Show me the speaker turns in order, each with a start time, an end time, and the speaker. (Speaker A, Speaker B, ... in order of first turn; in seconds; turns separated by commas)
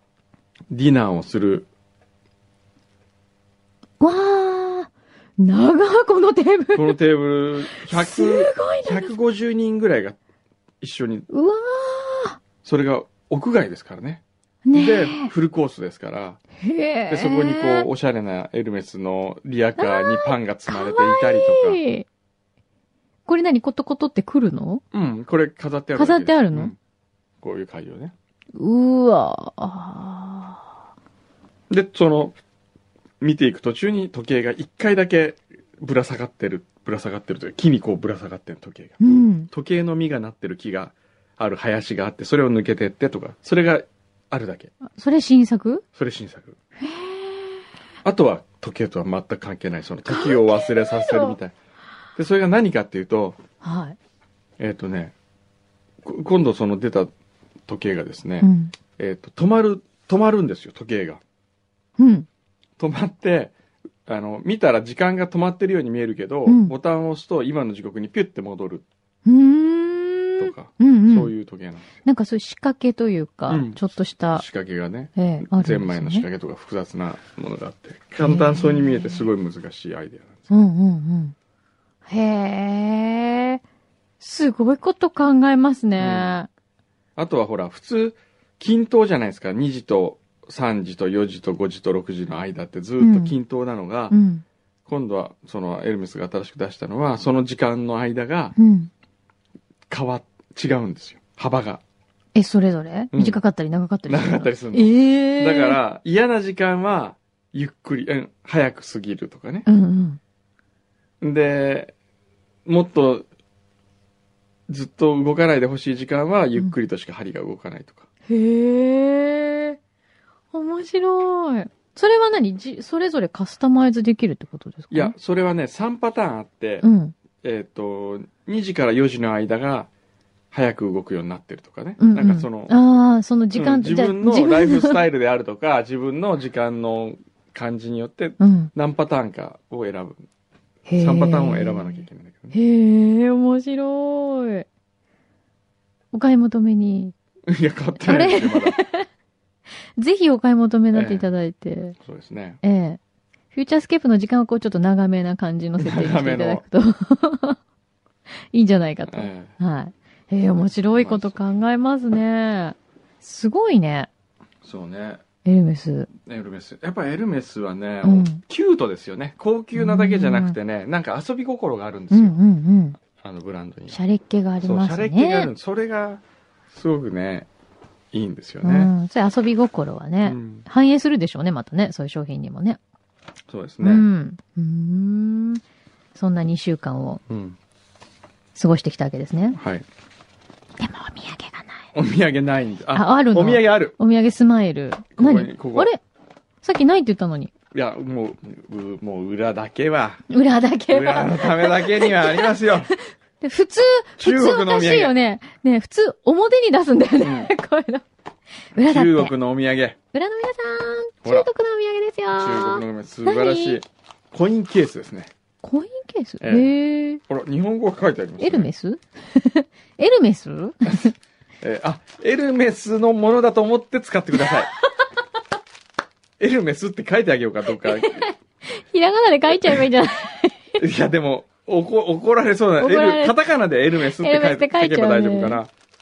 Speaker A: 0.7-1.7, Speaker B: 4.0-6.9, Speaker A: 6.7-10.2, Speaker B: 7.7-9.1, Speaker A: 10.8-11.2, Speaker B: 11.3-12.4, Speaker A: 12.6-14.2, Speaker B: 14.6-15.3, Speaker A: 14.7-16.4, Speaker B: 16.6-17.9, Speaker A: 17.1-21.8, Speaker B: 19.8-22.1, Speaker B: 23.2-24.8, Speaker A: 24.9-26.8, Speaker B: 25.9-26.7, Speaker A: 27.4-28.1, Speaker B: 28.5-30.7, Speaker A: 31.7-32.4, Speaker A: 33.2-44.7, Speaker B: 39.0-39.5, Speaker B: 44.9-45.8, Speaker A: 46.0-46.6, Speaker B: 46.8-47.6, Speaker A: 48.0-51.5, Speaker B: 50.1-51.4, Speaker A: 52.1-53.4, Speaker B: 53.6-54.0, Speaker A: 54.6-55.1, Speaker A: 56.0-57.1, Speaker A: 57.7-61.2, Speaker B: 58.4-58.7, Speaker B: 62.0-62.3, Speaker A: 62.8-63.5, Speaker A: 64.0-68.8, Speaker B: 66.5-66.7, Speaker B: 69.2-71.3, Speaker A: 70.4-71.9, Speaker B: 72.0-74.4, Speaker A: 73.5-73.8, Speaker A: 74.3-80.5, Speaker B: 75.2-76.2, Speaker B: 78.2-79.2, Speaker B: 80.5-81.3, Speaker B: 82.0-83.6, Speaker B: 84.2-86.5, Speaker A: 86.0-86.3, Speaker A: 87.2-94.1, Speaker B: 93.0-93.3, Speaker B: 94.1-94.4, Speaker A: 94.8-98.5, Speaker B: 98.6-98.9, Speaker A: 99.9-101.8, Speaker B: 102.3-105.8, Speaker A: 103.1-103.4, Speaker A: 104.1-109.7, Speaker B: 109.7-110.2, Speaker A: 111.2-111.9, Speaker A: 112.7-113.2, Speaker A: 114.7-118.1, Speaker B: 118.3-119.8, Speaker B: 120.5-125.1, Speaker A: 124.9-126.8, Speaker B: 126.8-127.2, Speaker A: 127.4-129.9, Speaker A: 130.5-132.8, Speaker B: 132.0-135.0, Speaker A: 133.5-140.2, Speaker B: 138.4-138.7, Speaker B: 140.8-144.7, Speaker A: 141.0-142.6, Speaker B: 146.1-147.1, Speaker A: 147.5-148.8, Speaker B: 148.0-149.1, Speaker B: 150.0-152.0, Speaker A: 150.9-151.3, Speaker A: 152.0-152.6, Speaker B: 152.6-153.0, Speaker B: 153.5-157.6, Speaker A: 155.8-156.6, Speaker B: 158.5-164.1, Speaker A: 159.1-159.5, Speaker A: 161.0-161.3, Speaker A: 164.6-165.2, Speaker B: 165.4-166.1, Speaker A: 166.2-172.4, Speaker B: 168.0-168.4, Speaker B: 169.7-170.6, Speaker B: 172.1-173.0, Speaker A: 173.0-174.0, Speaker B: 173.9-175.5, Speaker A: 174.6-177.5, Speaker A: 178.1-178.9, Speaker B: 178.6-182.8, Speaker A: 180.2-180.6, Speaker A: 183.5-184.1, Speaker B: 183.8-185.6, Speaker B: 186.1-187.2, Speaker A: 187.3-187.6, Speaker B: 188.5-189.6, Speaker A: 189.6-189.8, Speaker B: 190.8-191.8, Speaker A: 191.9-193.9, Speaker B: 192.9-196.0, Speaker A: 195.2-195.9, Speaker B: 196.6-197.5, Speaker A: 197.7-200.2, Speaker B: 200.3-202.5, Speaker A: 200.9-202.9, Speaker B: 203.4-208.0, Speaker A: 204.2-205.1, Speaker A: 207.2-207.5, Speaker B: 208.7-209.3, Speaker A: 208.8-210.0, Speaker B: 210.1-213.8, Speaker A: 211.2-211.5, Speaker A: 212.3-215.3, Speaker B: 215.6-217.2, Speaker A: 216.4-216.7, Speaker A: 217.3-218.7, Speaker B: 218.4-221.1, Speaker A: 221.6-224.7, Speaker A: 226.4-228.2, Speaker B: 227.7-230.8, Speaker A: 230.8-235.7, Speaker B: 232.8-233.3, Speaker B: 234.0-235.6